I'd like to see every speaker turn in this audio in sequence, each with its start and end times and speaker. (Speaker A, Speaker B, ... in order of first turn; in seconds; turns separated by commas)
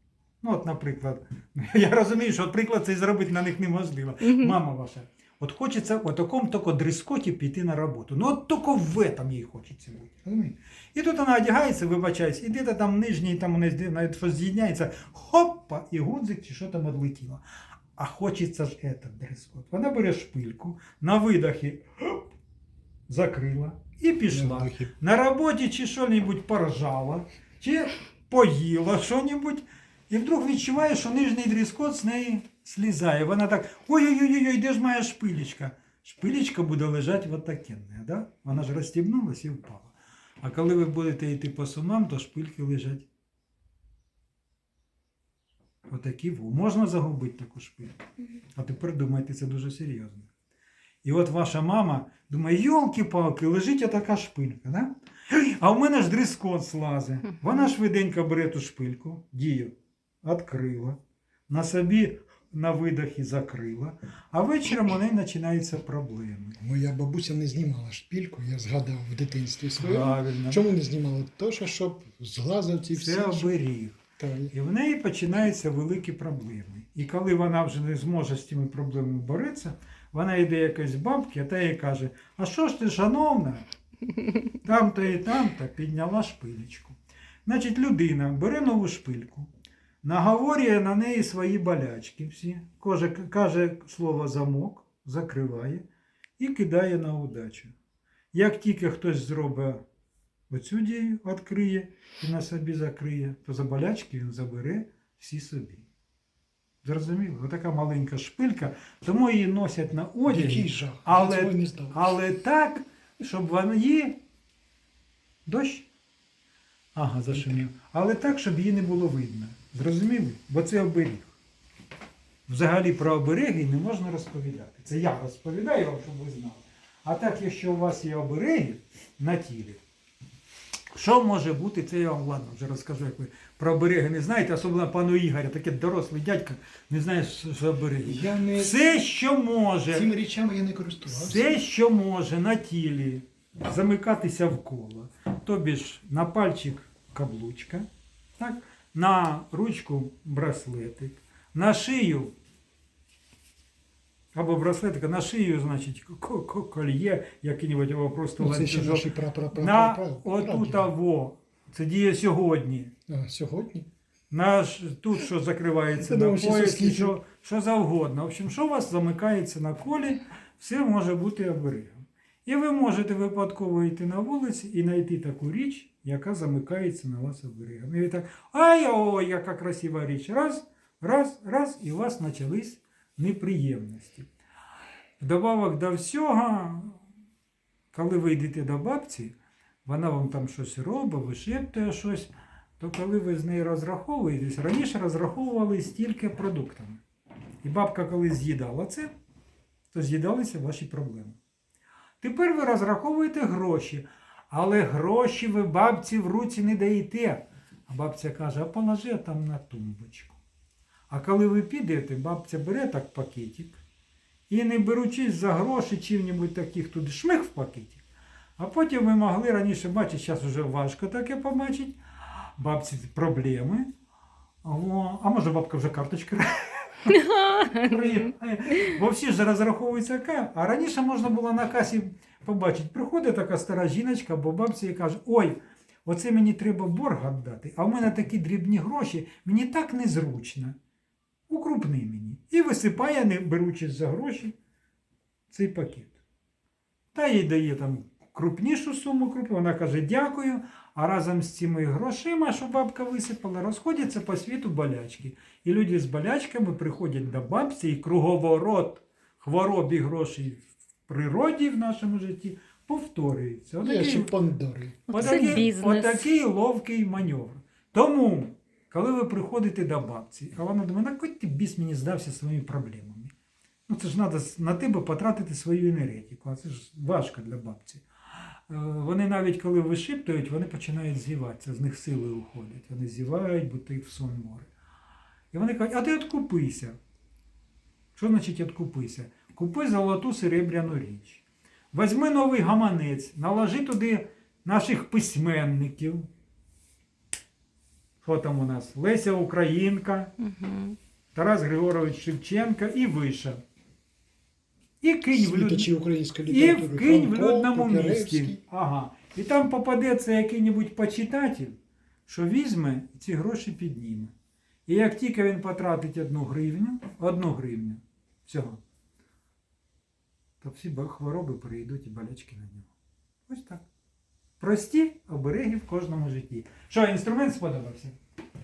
Speaker A: 0.4-17.4, Speaker B: 4.2-4.5, Speaker A: 17.9-22.3, Speaker A: 23.1-43.0, Speaker C: 24.3-24.9, Speaker A: 45.9-48.0, Speaker A: 48.5-50.3, Speaker A: 51.0-59.7, Speaker A: 60.2-61.0, Speaker A: 61.5-66.6, Speaker C: 66.6-73.5, Speaker A: 69.8-70.7, Speaker A: 72.9-74.0, Speaker C: 74.2-74.5, Speaker A: 74.5-83.7, Speaker A: 84.6-89.5, Speaker A: 90.0-95.8, Speaker A: 96.4-97.7, Speaker A: 98.3-99.8, Speaker A: 100.5-105.8, Speaker A: 106.8-114.2, Speaker C: 110.3-112.2, Speaker A: 115.5-115.9, Speaker A: 116.9-121.3, Speaker C: 117.3-117.6, Speaker A: 122.5-129.8, Speaker A: 130.9-140.1, Speaker C: 138.0-139.0, Speaker C: 139.9-141.5, Speaker A: 141.1-147.9, Speaker A: 148.4-152.3, Speaker A: 154.3-162.9, Speaker C: 158.4-160.9, Speaker C: 163.1-163.9, Speaker A: 164.3-184.3, Speaker C: 166.0-167.2, Speaker A: 185.2-187.0, Speaker A: 187.9-197.0, Speaker A: 197.6-199.1, Speaker A: 199.9-201.4, Speaker A: 202.2-210.4, Speaker A: 211.1-213.8, Speaker A: 214.5-218.0, Speaker A: 218.6-222.0, Speaker A: 222.6-223.9, Speaker A: 224.6-240.8, Speaker B: 227.1-228.3, Speaker A: 241.5-244.5, Speaker A: 245.5-246.2, Speaker A: 247.1-264.3, Speaker C: 263.8-265.6, Speaker B: 265.1-266.2, Speaker A: 265.1-273.3, Speaker A: 273.9-278.0, Speaker A: 278.7-284.7, Speaker A: 285.5-287.0, Speaker A: 288.1-296.3, Speaker A: 298.2-300.3, Speaker B: 300.4-301.0, Speaker A: 301.3-303.6, Speaker A: 305.0-305.9, Speaker C: 305.3-308.6, Speaker A: 306.5-311.7, Speaker A: 312.2-314.3, Speaker A: 314.9-318.8, Speaker A: 320.6-322.9, Speaker A: 323.5-323.8, Speaker A: 324.6-328.1